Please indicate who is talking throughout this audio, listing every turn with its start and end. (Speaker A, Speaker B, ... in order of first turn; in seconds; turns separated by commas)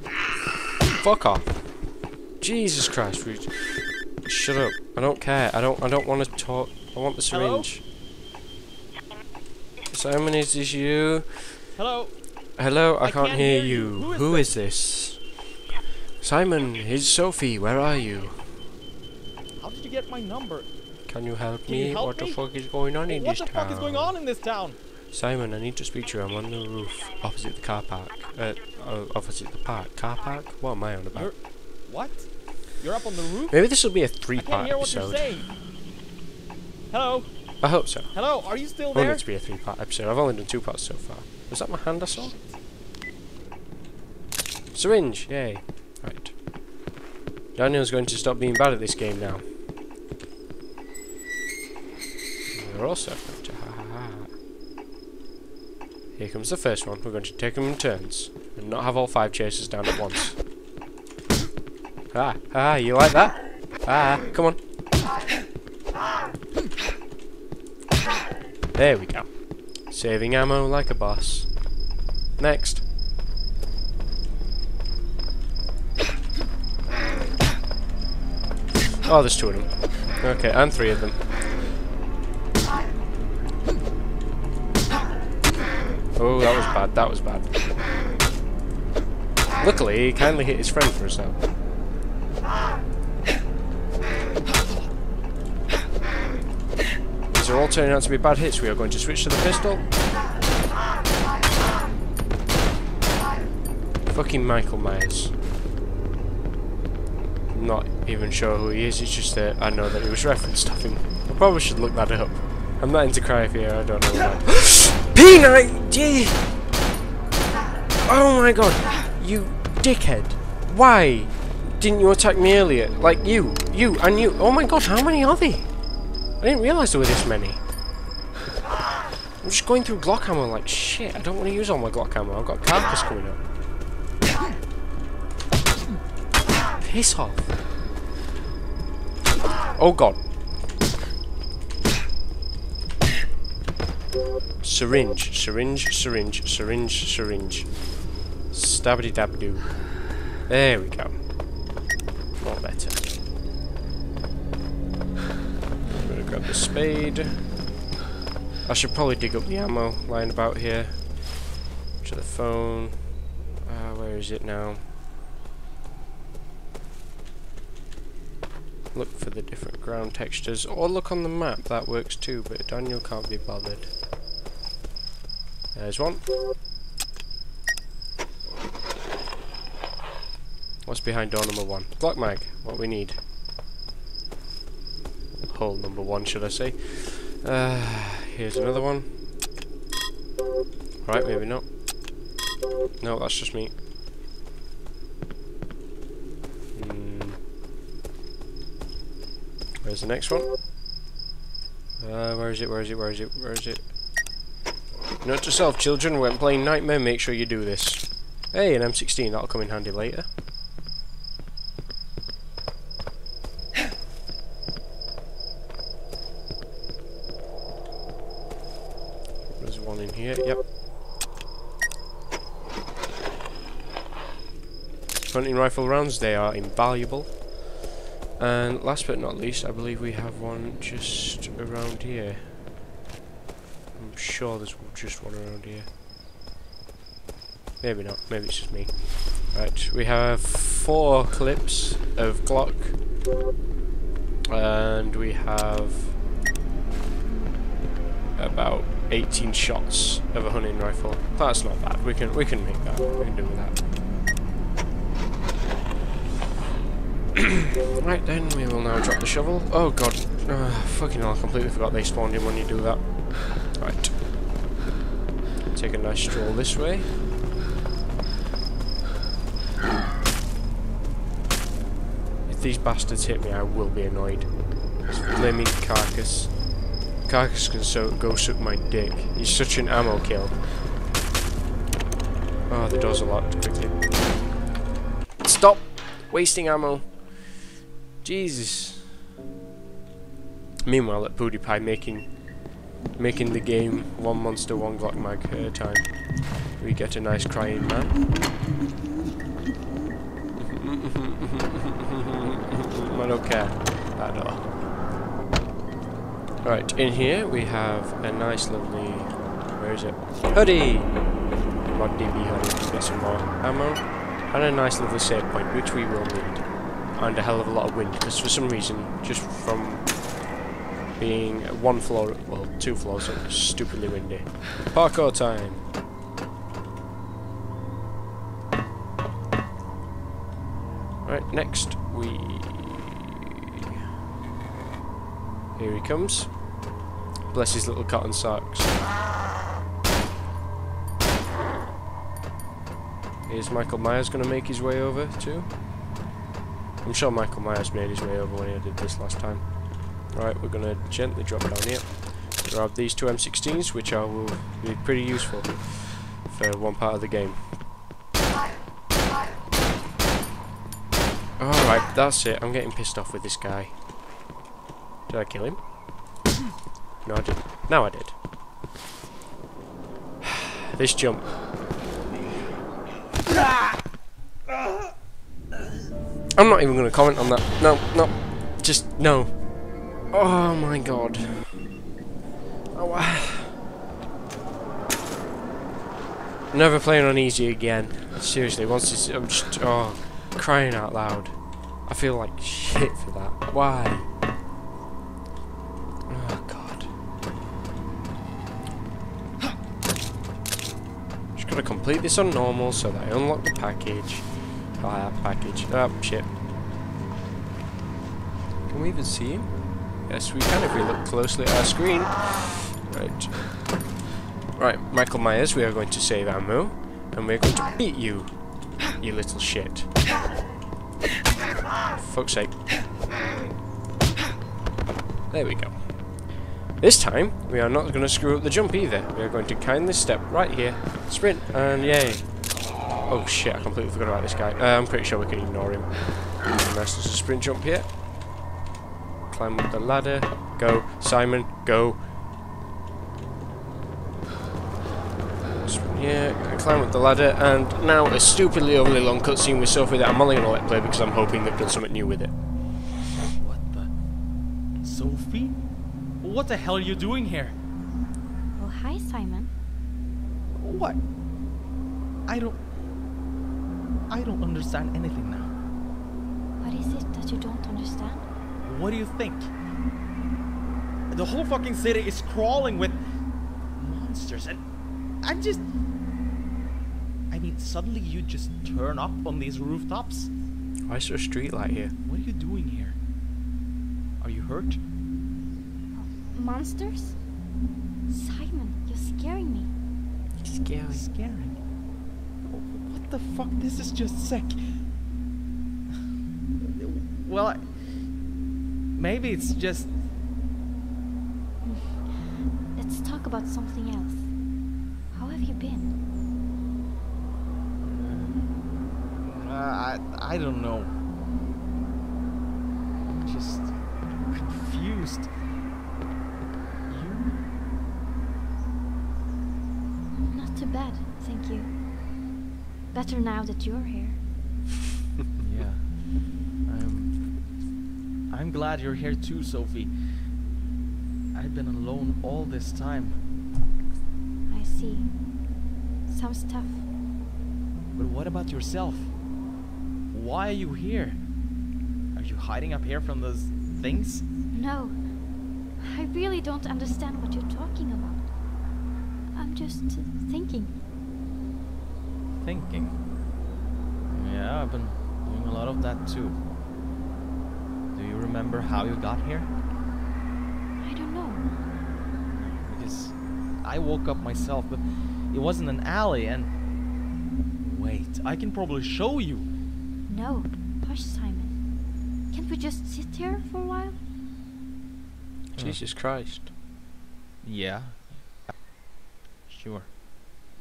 Speaker A: 0.9-7.8, Speaker B: 7.3-7.7, Speaker A: 9.9-11.7, Speaker B: 11.7-12.2, Speaker A: 12.6-15.3, Speaker B: 13.0-14.5, Speaker A: 16.2-18.7, Speaker B: 19.6-20.7, Speaker A: 21.1-24.1, Speaker B: 21.6-22.4, Speaker B: 23.1-24.8, Speaker A: 25.1-31.3, Speaker B: 31.1-33.5, Speaker A: 33.5-35.3, Speaker B: 34.3-35.5, Speaker B: 36.9-37.3, Speaker A: 37.6-42.3, Speaker B: 38.1-39.2, Speaker A: 44.7-46.4, Speaker A: 47.5-49.5, Speaker A: 52.5-54.3, Speaker A: 56.1-60.4, Speaker A: 62.1-64.6, Speaker A: 68.7-71.7, Speaker A: 72.4-72.8, Speaker A: 79.0-81.3, Speaker A: 86.1-87.8, Speaker A: 89.6-91.4, Speaker A: 97.3-99.8, Speaker A: 104.1-105.3, Speaker A: 107.5-116.5, Speaker A: 118.0-125.7, Speaker A: 126.4-127.6, Speaker A: 129.4-133.4, Speaker A: 136.7-137.5, Speaker A: 139.7-140.2, Speaker A: 144.6-147.9, Speaker A: 148.5-151.3, Speaker A: 152.4-153.1, Speaker A: 155.9-157.5, Speaker A: 158.6-164.8, Speaker A: 168.9-173.9, Speaker A: 175.7-176.3, Speaker A: 180.8-183.2, Speaker A: 185.5-189.2, Speaker A: 191.0-191.8, Speaker A: 193.0-193.7, Speaker A: 196.7-197.4, Speaker A: 199.8-200.5, Speaker A: 202.0-203.9, Speaker A: 205.2-210.3, Speaker A: 219.5-220.6, Speaker A: 225.2-227.6, Speaker A: 228.4-232.6, Speaker A: 233.9-235.9, Speaker A: 237.8-243.0, Speaker A: 244.5-246.2, Speaker A: 248.3-253.8, Speaker A: 257.9-264.2, Speaker A: 265.7-267.2, Speaker A: 272.4-280.6, Speaker A: 282.7-284.1, Speaker A: 285.4-287.6, Speaker A: 288.2-289.2, Speaker A: 290.8-298.2, Speaker A: 300.6-305.0, Speaker A: 306.6-320.2, Speaker A: 321.1-325.8, Speaker A: 331.2-333.2, Speaker A: 335.8-336.7, Speaker A: 337.5-338.9, Speaker A: 343.4-345.8, Speaker A: 347.0-357.6, Speaker A: 361.6-364.0, Speaker A: 365.3-365.8, Speaker A: 367.2-368.4, Speaker A: 370.9-371.6, Speaker A: 376.6-381.9, Speaker A: 382.9-383.8, Speaker A: 386.7-394.3, Speaker A: 396.3-397.1, Speaker A: 401.5-406.5, Speaker A: 408.9-414.1, Speaker A: 414.7-420.2, Speaker A: 422.1-423.0, Speaker A: 425.5-438.1, Speaker A: 439.5-442.2, Speaker A: 445.8-452.5, Speaker B: 453.5-454.1, Speaker B: 455.0-455.8, Speaker B: 456.4-457.7, Speaker C: 458.8-459.7, Speaker B: 460.8-461.2, Speaker B: 462.4-462.8, Speaker B: 464.3-465.7, Speaker C: 466.8-468.4, Speaker B: 468.8-469.7, Speaker B: 471.3-473.2, Speaker B: 473.9-474.8, Speaker B: 475.4-475.8, Speaker B: 477.5-480.5, Speaker A: 481.1-482.1, Speaker B: 482.2-483.1, Speaker B: 484.4-485.0, Speaker C: 486.1-487.4, Speaker C: 488.3-489.9, Speaker A: 490.6-491.3, Speaker B: 491.1-491.8, Speaker B: 492.7-494.9, Speaker B: 496.8-498.3, Speaker B: 499.1-500.1, Speaker C: 501.8-504.6, Speaker C: 505.3-506.1, Speaker B: 508.0-508.7, Speaker B: 509.3-511.1, Speaker B: 513.3-515.5, Speaker B: 517.1-517.5, Speaker C: 520.5-521.9, Speaker C: 523.1-524.4, Speaker B: 525.6-527.4, Speaker B: 528.5-530.1, Speaker B: 531.5-533.4, Speaker C: 534.7-535.4, Speaker C: 536.2-537.0, Speaker B: 538.1-539.4, Speaker B: 540.3-541.4, Speaker B: 542.3-544.4, Speaker C: 544.7-545.4, Speaker C: 545.9-548.5, Speaker C: 549.5-551.0, Speaker B: 552.5-553.2, Speaker B: 554.3-556.6, Speaker B: 558.1-559.7, Speaker C: 561.0-561.7, Speaker B: 562.5-566.7, Speaker B: 567.8-569.7, Speaker C: 570.3-571.8, Speaker C: 572.5-574.2, Speaker B: 575.7-576.0, Speaker A: 575.8-576.7, Speaker B: 577.6-578.7, Speaker B: 579.7-580.1